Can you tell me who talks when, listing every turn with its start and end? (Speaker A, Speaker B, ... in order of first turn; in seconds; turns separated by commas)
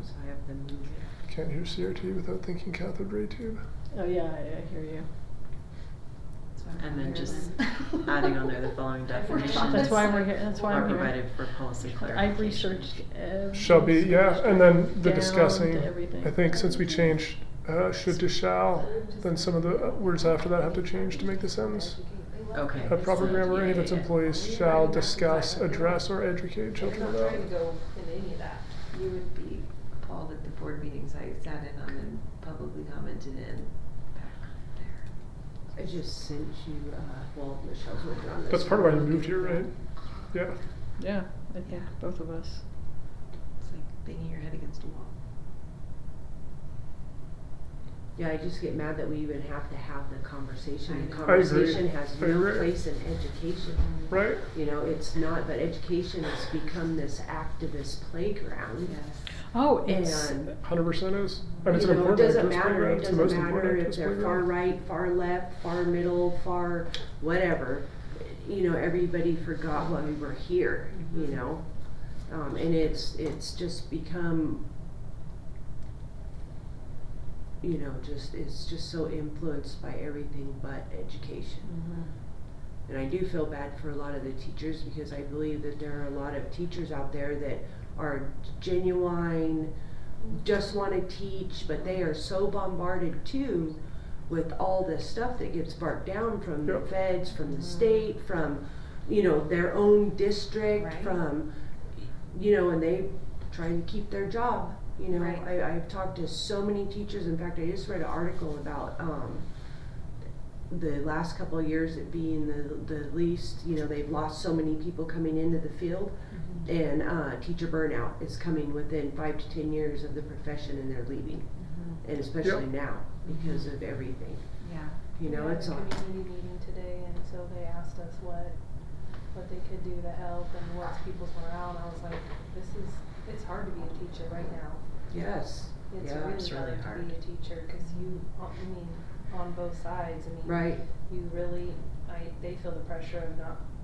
Speaker A: 0.2-1.0, Speaker B: 1.3-3.6, Speaker C: 3.9-5.1, Speaker D: 6.5-8.2, Speaker A: 6.8-10.0, Speaker E: 9.1-10.9, Speaker D: 9.3-10.3, Speaker C: 9.7-17.1, Speaker A: 10.7-13.0, Speaker B: 13.5-21.9, Speaker E: 18.8-23.3, Speaker C: 19.4-19.9, Speaker C: 20.9-21.9, Speaker A: 22.5-24.3, Speaker B: 22.9-27.4, Speaker E: 24.3-25.6, Speaker C: 24.7-26.1, Speaker E: 26.8-28.8, Speaker D: 28.9-35.0, Speaker F: 35.7-39.7, Speaker B: 38.5-39.7, Speaker B: 40.3-40.6, Speaker C: 41.0-42.6, Speaker D: 41.6-41.9, Speaker D: 43.6-45.1, Speaker F: 48.1-53.8, Speaker D: 50.8-51.8, Speaker B: 51.2-52.7, Speaker D: 53.7-54.1, Speaker B: 54.1-54.4, Speaker F: 54.5-59.0, Speaker D: 58.8-59.4, Speaker C: 59.5-60.5, Speaker F: 59.9-60.5, Speaker B: 60.6-64.5, Speaker D: 61.5-61.8, Speaker F: 61.7-71.7, Speaker D: 71.0-71.3, Speaker F: 72.2-74.6, Speaker F: 77.6-81.7, Speaker D: 81.6-82.1, Speaker F: 82.9-89.7, Speaker F: 90.3-101.5, Speaker D: 97.4-97.8, Speaker D: 100.8-101.2, Speaker F: 102.3-109.5, Speaker D: 105.1-105.4, Speaker F: 110.7-121.5, Speaker D: 116.3-116.7, Speaker D: 121.6-122.0, Speaker F: 122.0-124.4, Speaker D: 123.2-123.7, Speaker D: 124.6-125.0, Speaker F: 125.2-125.9, Speaker E: 125.2-128.5, Speaker E: 129.3-134.8, Speaker F: 135.1-136.4, Speaker E: 135.9-136.4, Speaker A: 136.2-137.2, Speaker C: 136.4-137.1, Speaker E: 137.1-143.6, Speaker F: 140.4-140.8